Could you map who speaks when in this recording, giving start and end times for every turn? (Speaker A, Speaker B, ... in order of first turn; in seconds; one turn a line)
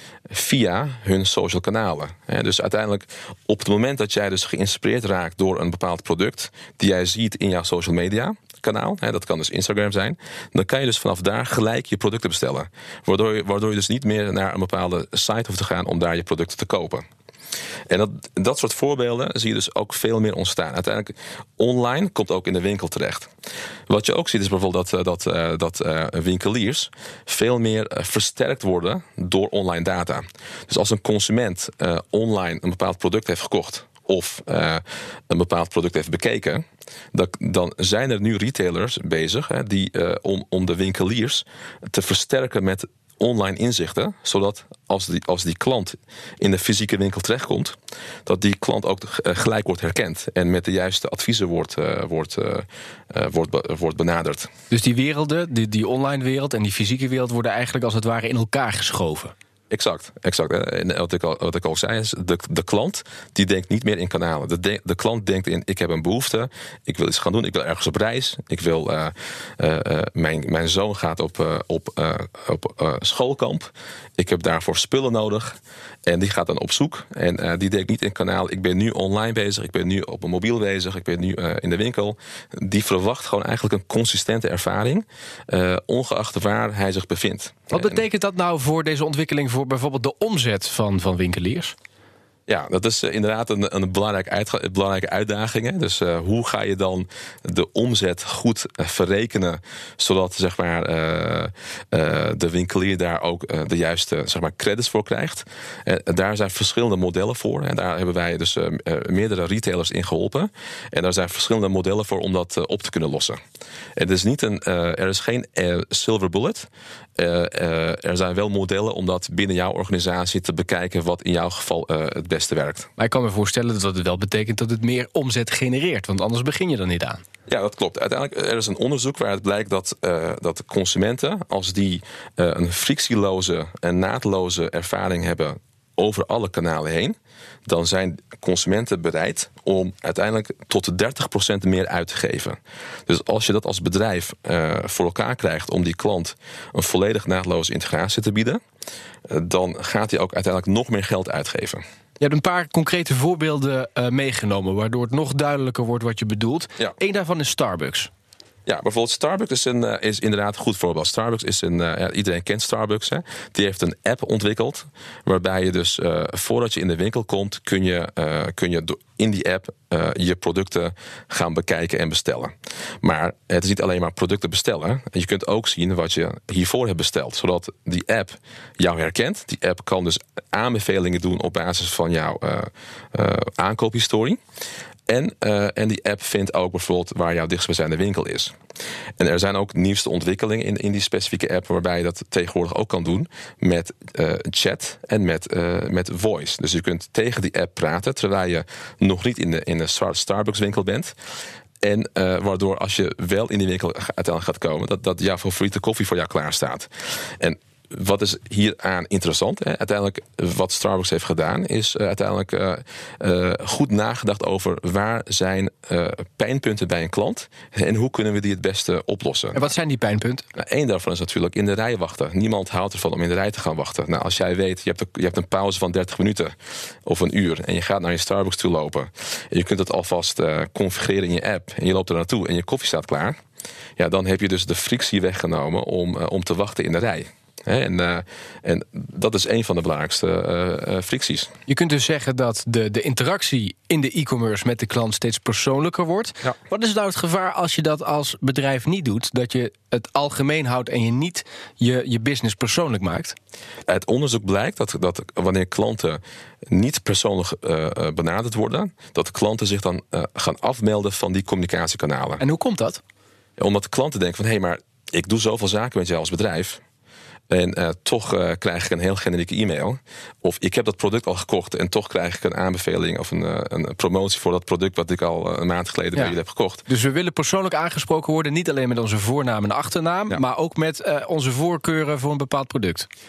Speaker A: 0.3-17.1
Speaker A: 17.9-23.3
Speaker A: 23.9-54.5
Speaker B: 54.7-59.3
Speaker A: 59.7-88.0
Speaker B: 87.7-91.8
Speaker A: 92.5-113.4
Speaker A: 114.0-122.9
Speaker B: 123.0-127.2
Speaker A: 127.5-148.6
Speaker A: 149.3-151.8
Speaker B: 152.2-158.1
Speaker A: 158.7-184.4
Speaker A: 185.1-188.6
Speaker A: 189.2-201.1
Speaker A: 201.8-219.6
Speaker B: 219.6-220.4
Speaker A: 220.6-233.4
Speaker A: 234.0-241.5
Speaker B: 241.7-253.4
Speaker A: 253.9-262.4
Speaker B: 262.4-263.0
Speaker A: 263.6-266.8
Speaker A: 267.5-276.9
Speaker B: 276.9-283.1